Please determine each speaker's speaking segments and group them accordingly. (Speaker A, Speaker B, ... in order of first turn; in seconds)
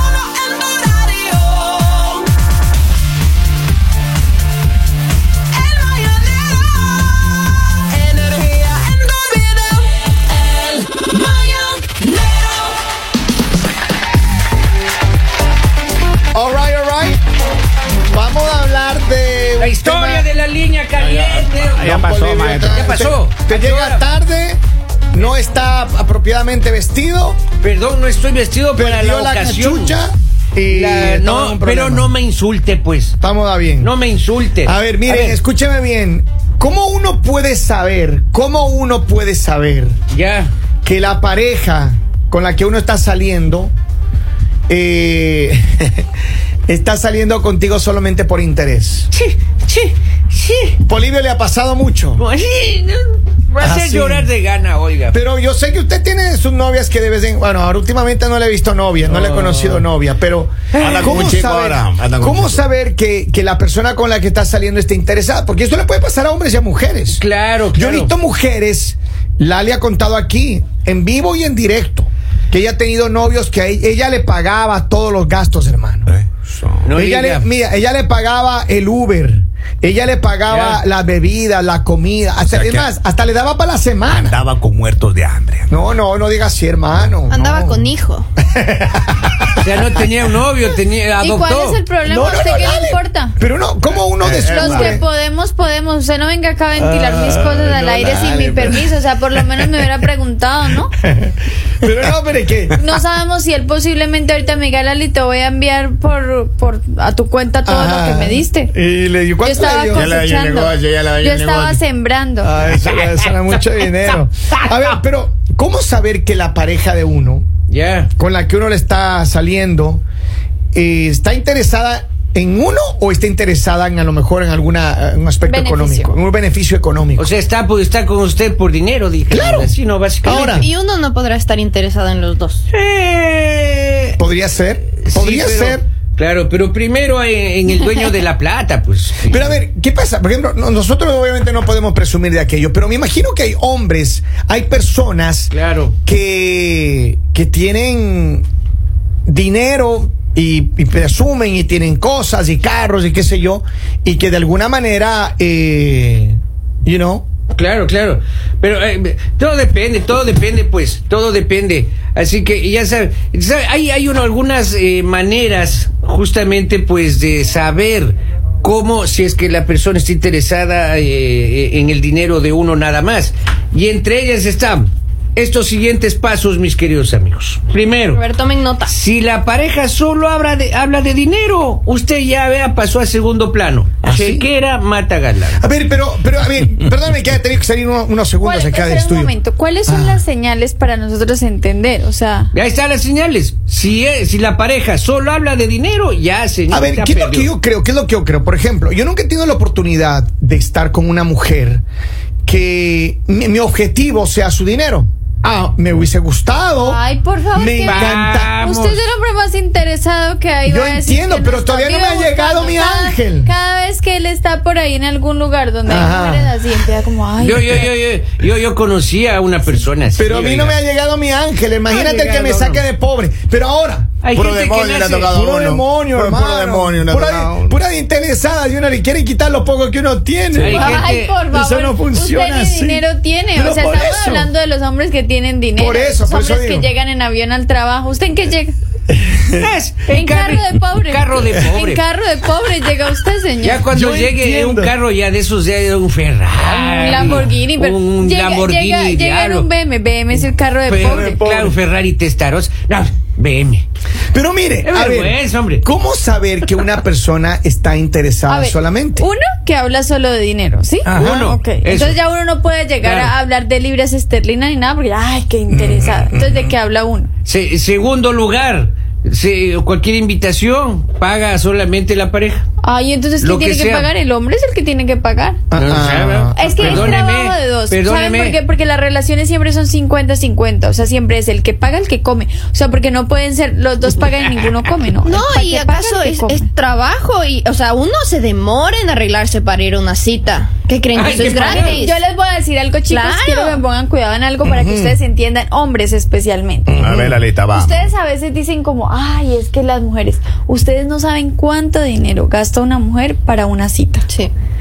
Speaker A: 5.8-6.5, 8.1-9.8, 11.0-12.1, 19.6-21.9, 22.7-24.1, 27.6-30.0, 30.7-33.2, 33.8-35.4, 40.1-40.5, 49.1-50.8, 52.2-55.2, 59.0-59.9, 60.7-61.3, 67.1-68.1, 76.8-77.5, 80.5-80.8, 89.6-91.8, 117.7-118.1, 127.2-130.5, 132.7-134.2, 135.0-139.6, 145.5-145.9, 157.6-178.2, 178.9-185.6, 192.5-197.5, 207.9-209.0, 217.4-220.8, 221.9-222.8, 224.2-225.3, 230.5-231.3, 239.5-242.0, 243.6-249.7, 250.9-253.9, 254.8-255.8, 261.1-262.2, 263.0-263.3, 267.4-272.6, 273.4-274.1, 275.8-278.6, 291.1-292.0
Speaker B: 16.3-17.2, 18.1-20.3, 21.8-24.6, 25.1-27.4, 28.8-32.1, 33.2-33.9, 34.6-40.0, 40.8-43.7, 44.7-46.0, 46.7-49.1, 50.8-52.2, 53.6-54.3, 55.1-67.2, 67.7-76.1, 77.0-84.4, 85.7-87.8, 88.4-90.0, 92.0-95.0, 96.8-99.9, 101.0-102.8, 107.6-110.1, 112.4-117.5, 118.2-120.0, 120.7-127.3, 129.3-130.7, 134.2-135.8, 139.2-145.5, 146.1-148.4, 149.3-157.3, 184.0-184.5, 185.6-189.3, 189.9-190.2, 196.7-201.8, 202.5-207.0, 207.5-208.6, 210.7-213.5, 215.9-216.6, 220.2-224.1, 225.3-234.5, 235.8-236.9, 239.1-239.7, 243.9-244.9, 251.0-251.8, 254.3-259.3, 261.0-261.6, 265.7-266.8, 275.7-277.1, 294.6-295.2, 296.9-297.4
Speaker C: 21.2-23.0, 60.8-62.6, 76.1-76.9, 82.4-82.9, 84.1-85.7, 93.9-95.0, 109.9-111.8, 224.3-227.8, 297.0-298.1
Speaker D: 87.3-88.3, 130.3-132.6, 178.1-178.9, 285.2-292.2, 293.1-293.8
Speaker E: 91.2-93.3, 94.5-100.9, 102.8-108.7, 109.4-112.5, 125.5-126.2, 188.4-192.5, 206.8-217.9, 230.7-238.8, 240.1-243.9, 246.7-251.4, 258.5-267.3, 272.8-275.6, 276.6-286.7, 291.6-296.9, 297.7-304.3